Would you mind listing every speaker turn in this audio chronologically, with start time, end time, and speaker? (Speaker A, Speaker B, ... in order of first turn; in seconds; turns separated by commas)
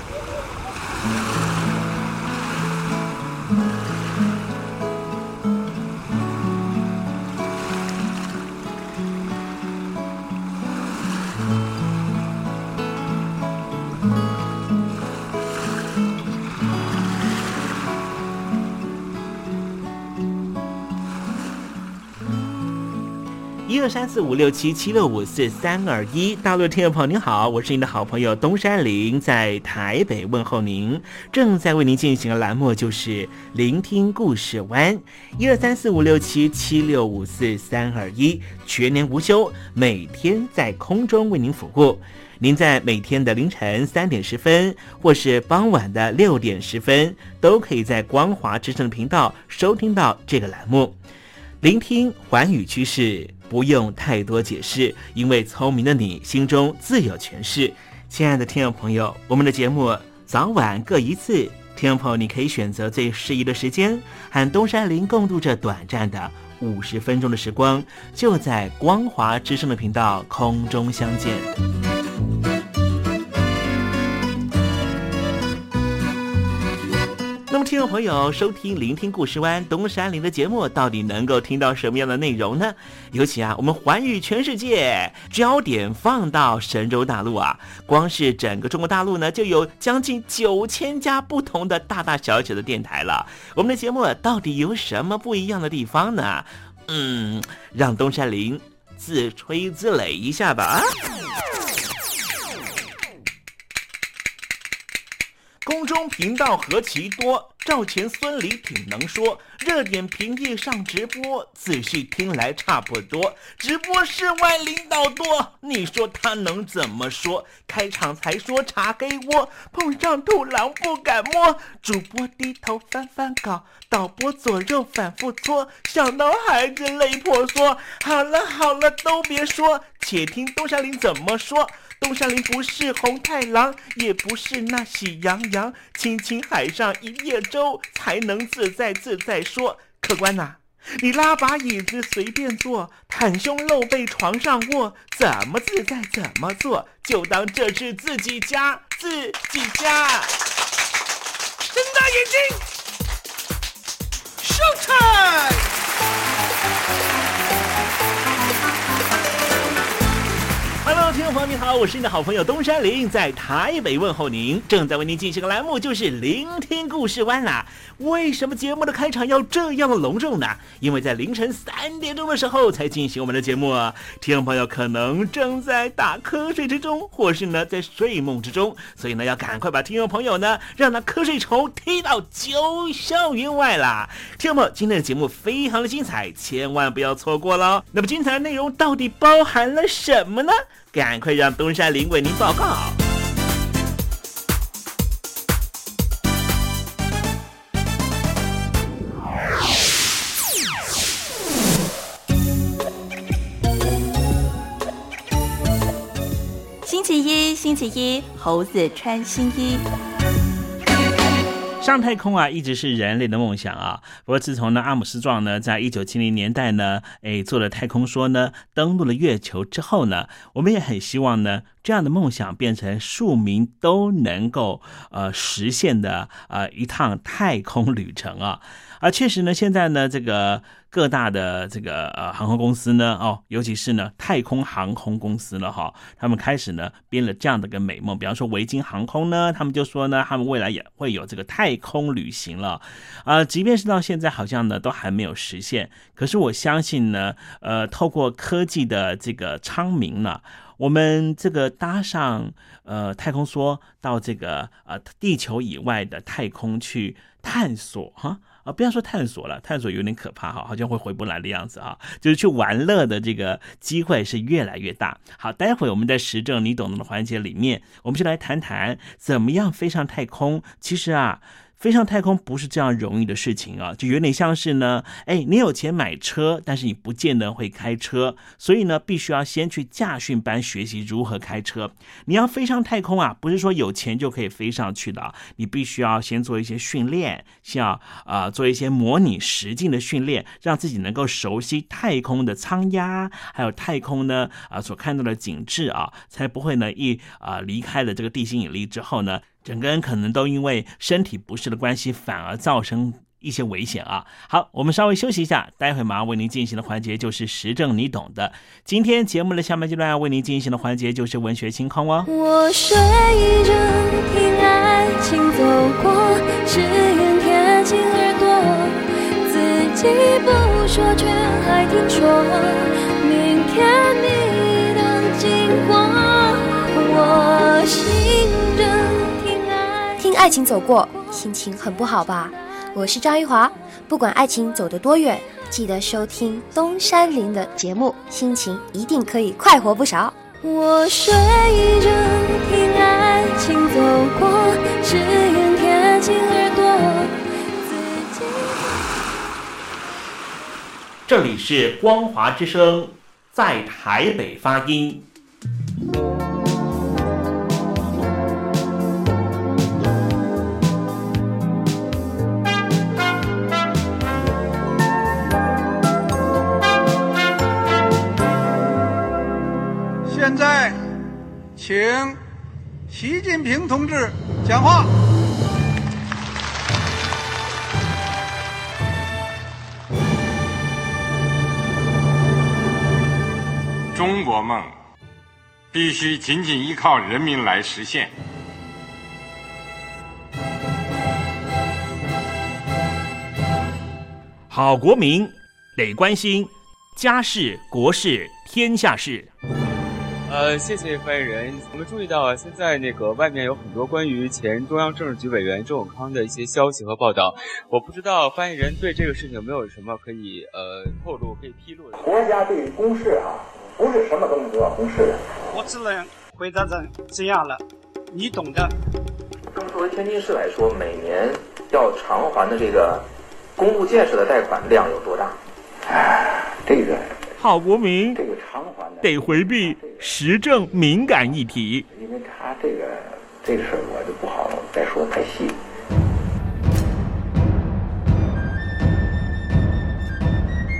Speaker A: 23.7-51.0, Speaker A: 51.6-71.5, Speaker A: 77.5-101.0, Speaker A: 105.6-150.3, Speaker A: 160.8-193.0, Speaker B: 206.8-209.8, Speaker A: 211.8-312.3, Speaker C: 312.3-330.3, Speaker D: 330.2-340.4, Speaker C: 340.6-349.1, Speaker A: 351.3-355.2, Speaker E: 370.3-371.0, Speaker E: 371.8-372.4, Speaker E: 373.1-375.1, Speaker F: 384.1-384.9, Speaker F: 385.9-388.3, Speaker A: 394.7-399.5, Speaker G: 400.5-412.5, Speaker H: 412.2-415.7, Speaker I: 415.8-417.8, Speaker E: 415.9-416.5, Speaker I: 418.4-418.8, Speaker H: 419.7-427.4, Speaker A: 427.6-428.4, Speaker H: 428.4-430.2, Speaker A: 429.2-432.1, Speaker H: 432.1-435.8